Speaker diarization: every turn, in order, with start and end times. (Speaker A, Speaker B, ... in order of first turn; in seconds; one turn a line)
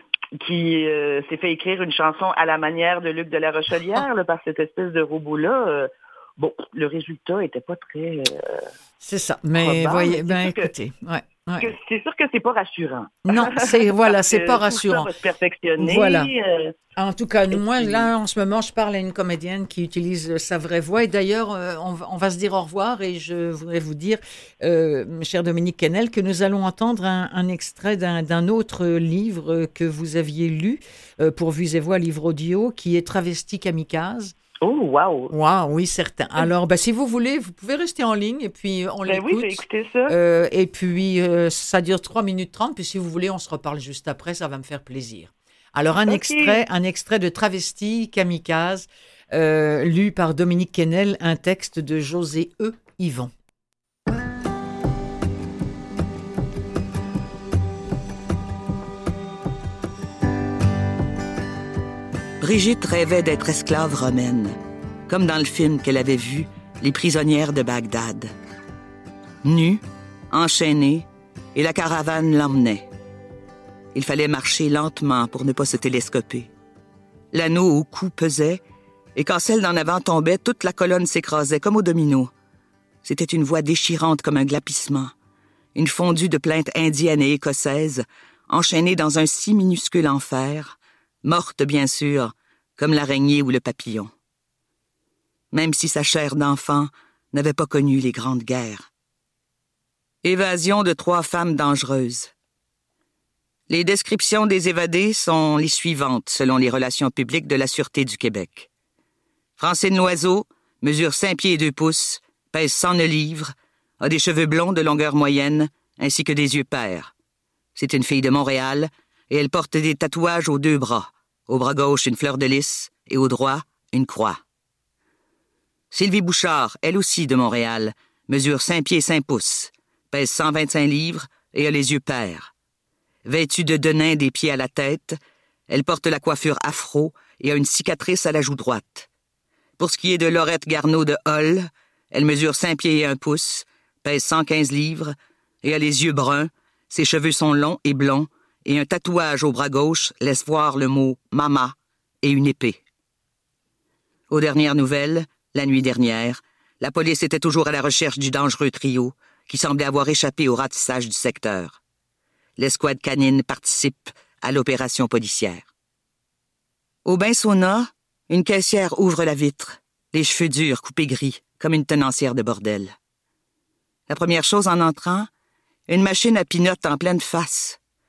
Speaker A: 0.4-8.7
Speaker B: 9.0-11.7
Speaker A: 9.6-10.7
Speaker A: 11.6-16.8
Speaker B: 13.2-15.1
Speaker B: 15.8-16.3
Speaker B: 17.0-34.4
Speaker A: 17.5-18.1
Speaker A: 34.6-35.3
Speaker B: 35.3-53.3
Speaker A: 39.0-40.1
Speaker A: 46.1-46.6
Speaker C: 62.4-64.5
Speaker C: 65.1-68.3
Speaker C: 69.4-72.9
Speaker C: 73.9-76.5
Speaker C: 77.3-78.6
Speaker C: 79.2-82.3
Speaker C: 83.0-85.1
Speaker C: 85.7-94.1
Speaker C: 95.5-98.9
Speaker C: 100.2-102.3
Speaker C: 103.7-108.7
Speaker C: 109.6-117.1
Speaker C: 117.7-124.4
Speaker C: 125.9-132.5
Speaker C: 133.2-139.1
Speaker C: 139.8-152.8
Speaker C: 154.3-161.8
Speaker C: 162.6-165.7
Speaker C: 167.0-172.9
Speaker C: 174.1-175.3
Speaker C: 175.9-177.8